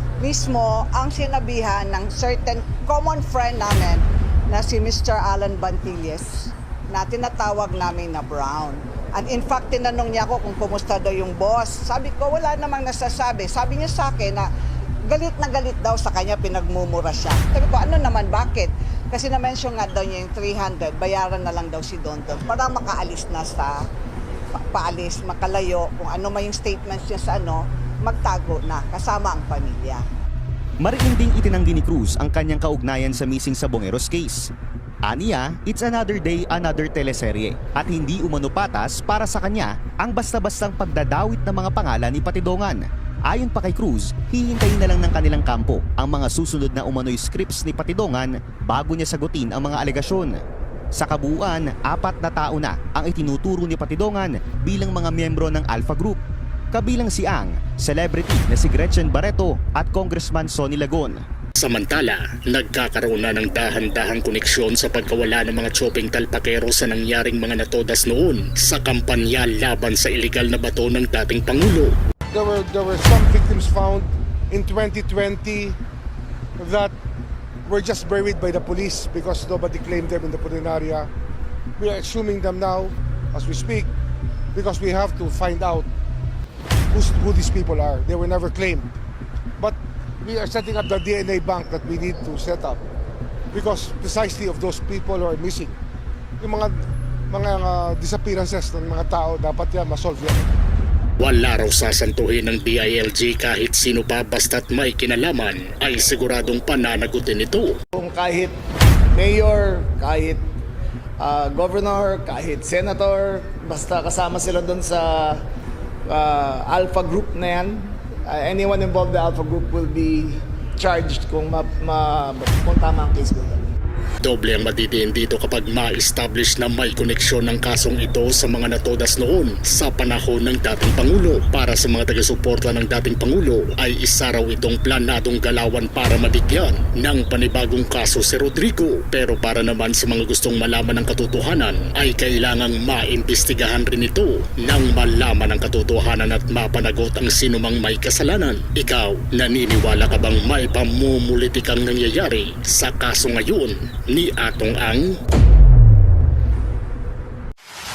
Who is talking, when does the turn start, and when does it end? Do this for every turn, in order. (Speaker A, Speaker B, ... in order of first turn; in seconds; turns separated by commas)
Speaker A: 0.2-14.5, Speaker A: 15.1-23.8, Speaker A: 24.5-30.0, Speaker B: 30.8-34.5, Speaker B: 35.0-50.4, Speaker B: 50.9-56.2, Speaker B: 56.7-61.2, Speaker C: 61.6-71.9, Speaker D: 72.3-75.8, Speaker D: 76.6-76.9, Speaker D: 77.7-81.1, Speaker D: 81.8-83.9, Speaker D: 84.5-85.9, Speaker D: 86.9-88.9, Speaker D: 89.6-92.8, Speaker D: 93.5-95.8, Speaker D: 96.4-96.7, Speaker D: 97.3-100.5, Speaker C: 101.2-107.8, Speaker E: 107.9-108.6, Speaker E: 109.1-110.4, Speaker E: 111.2-115.4, Speaker E: 116.1-123.6, Speaker C: 124.2-155.1